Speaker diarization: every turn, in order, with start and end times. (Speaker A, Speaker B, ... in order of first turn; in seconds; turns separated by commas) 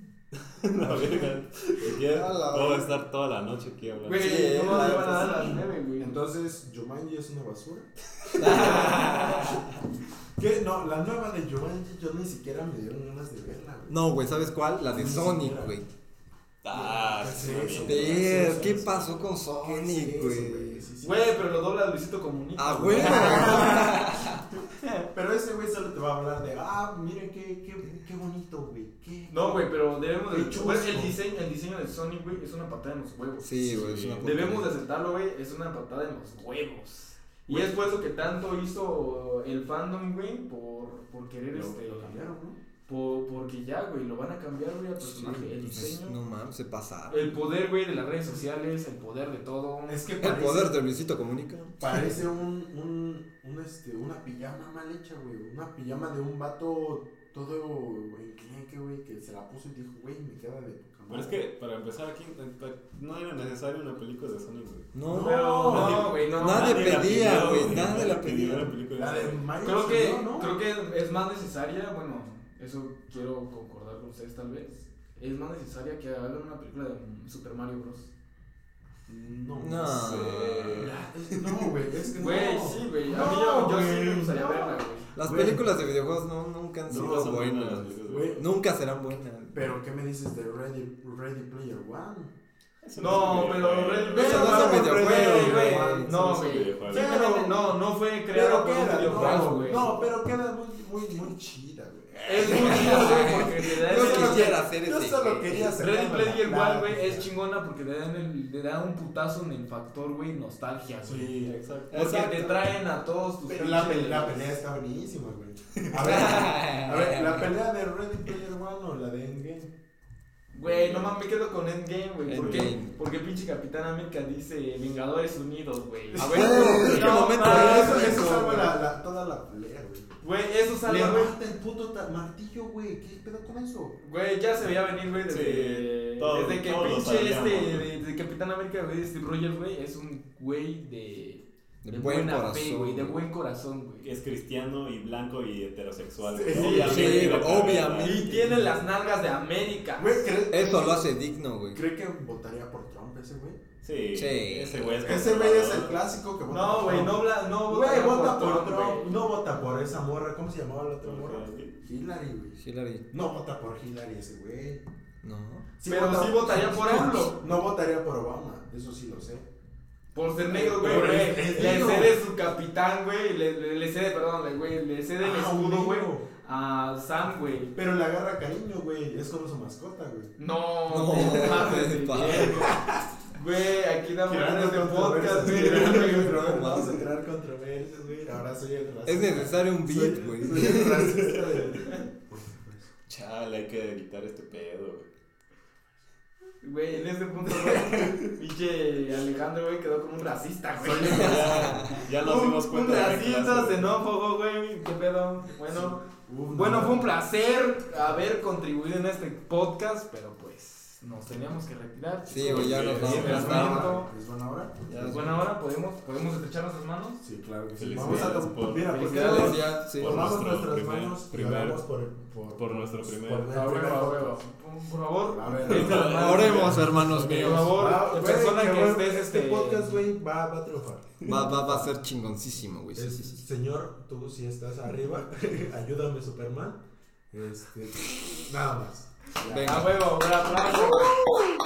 Speaker A: 0.4-4.4, Speaker B: 0.8-1.4, Speaker C: 1.9-3.0, Speaker D: 4.0-6.2, Speaker C: 4.2-5.6, Speaker B: 4.3-9.7, Speaker C: 8.4-9.2, Speaker D: 8.4-9.7, Speaker B: 10.4-14.0, Speaker C: 13.9-15.9, Speaker B: 14.9-15.7, Speaker A: 16.6-19.4, Speaker B: 16.7-19.0, Speaker C: 17.8-20.9, Speaker B: 19.5-21.4, Speaker D: 21.0-25.0, Speaker C: 22.6-24.4, Speaker B: 23.0-23.9, Speaker B: 25.1-29.7, Speaker D: 29.3-33.5, Speaker B: 30.3-31.2, Speaker C: 33.4-34.7, Speaker A: 33.6-34.6, Speaker D: 34.2-42.2, Speaker B: 41.5-42.6, Speaker D: 42.9-46.2, Speaker C: 45.0-47.4, Speaker D: 47.1-50.1, Speaker B: 49.9-50.8, Speaker C: 50.2-52.0, Speaker B: 51.8-61.4, Speaker A: 61.1-64.9, Speaker C: 64.9-68.7, Speaker B: 65.1-66.2, Speaker D: 65.1-67.1, Speaker A: 65.6-69.5, Speaker B: 68.9-70.6, Speaker D: 69.6-78.1, Speaker B: 79.1-85.7, Speaker C: 79.6-80.4, Speaker A: 79.9-81.8, Speaker D: 82.2-85.1, Speaker C: 85.2-89.7, Speaker A: 86.9-88.4, Speaker B: 88.1-88.5, Speaker B: 89.5-92.3, Speaker A: 92.8-94.6, Speaker D: 93.0-100.0, Speaker B: 94.1-97.7, Speaker C: 94.1-96.1, Speaker A: 96.2-97.2, Speaker B: 98.3-107.3, Speaker A: 99.1-100.0, Speaker D: 102.3-104.7, Speaker C: 102.4-105.8, Speaker D: 105.6-114.6, Speaker B: 111.0-111.6, Speaker A: 111.4-111.9, Speaker C: 111.9-112.6, Speaker B: 113.5-119.7, Speaker A: 115.8-116.3, Speaker C: 116.0-117.5, Speaker D: 116.1-116.6, Speaker D: 120.5-128.7, Speaker A: 120.6-121.2, Speaker C: 122.3-122.9, Speaker A: 122.3-122.7, Speaker C: 126.2-128.3, Speaker B: 126.2-130.2, Speaker D: 130.2-131.3, Speaker B: 130.8-134.0, Speaker D: 134.0-144.1, Speaker A: 135.3-137.9, Speaker C: 141.8-143.2, Speaker A: 144.0-148.4, Speaker B: 146.3-147.3, Speaker D: 146.5-150.2, Speaker C: 146.8-148.6, Speaker B: 150.0-151.1, Speaker C: 150.5-151.8, Speaker B: 151.7-153.6, Speaker A: 153.8-156.0, Speaker C: 154.2-155.0, Speaker B: 155.0-162.6, Speaker D: 156.5-159.2, Speaker A: 161.0-161.8, Speaker C: 162.6-163.0, Speaker B: 163.1-164.8, Speaker C: 165.2-165.7, Speaker B: 165.8-169.5, Speaker D: 165.8-167.3, Speaker D: 170.1-177.8, Speaker B: 170.4-172.2, Speaker B: 175.2-176.3, Speaker B: 177.8-180.3, Speaker D: 180.4-186.6, Speaker C: 180.9-182.7, Speaker B: 182.2-183.0, Speaker B: 184.3-192.9, Speaker C: 186.2-187.1, Speaker C: 189.1-191.3, Speaker A: 190.6-191.7, Speaker A: 193.1-195.1, Speaker D: 196.6-214.1, Speaker B: 197.7-198.0, Speaker B: 200.8-201.9, Speaker A: 201.0-204.0, Speaker B: 205.7-207.1, Speaker C: 212.3-213.9, Speaker A: 212.3-213.9, Speaker B: 213.0-215.2, Speaker C: 214.9-215.4, Speaker D: 215.0-217.2, Speaker B: 217.2-224.4, Speaker A: 217.8-221.8, Speaker D: 218.9-219.7, Speaker C: 219.2-220.3, Speaker A: 222.6-223.5, Speaker D: 223.5-230.0, Speaker B: 225.3-231.9, Speaker A: 225.7-227.6, Speaker C: 225.9-227.8, Speaker C: 231.2-233.4, Speaker B: 232.9-239.9, Speaker C: 239.4-239.9, Speaker D: 239.6-241.2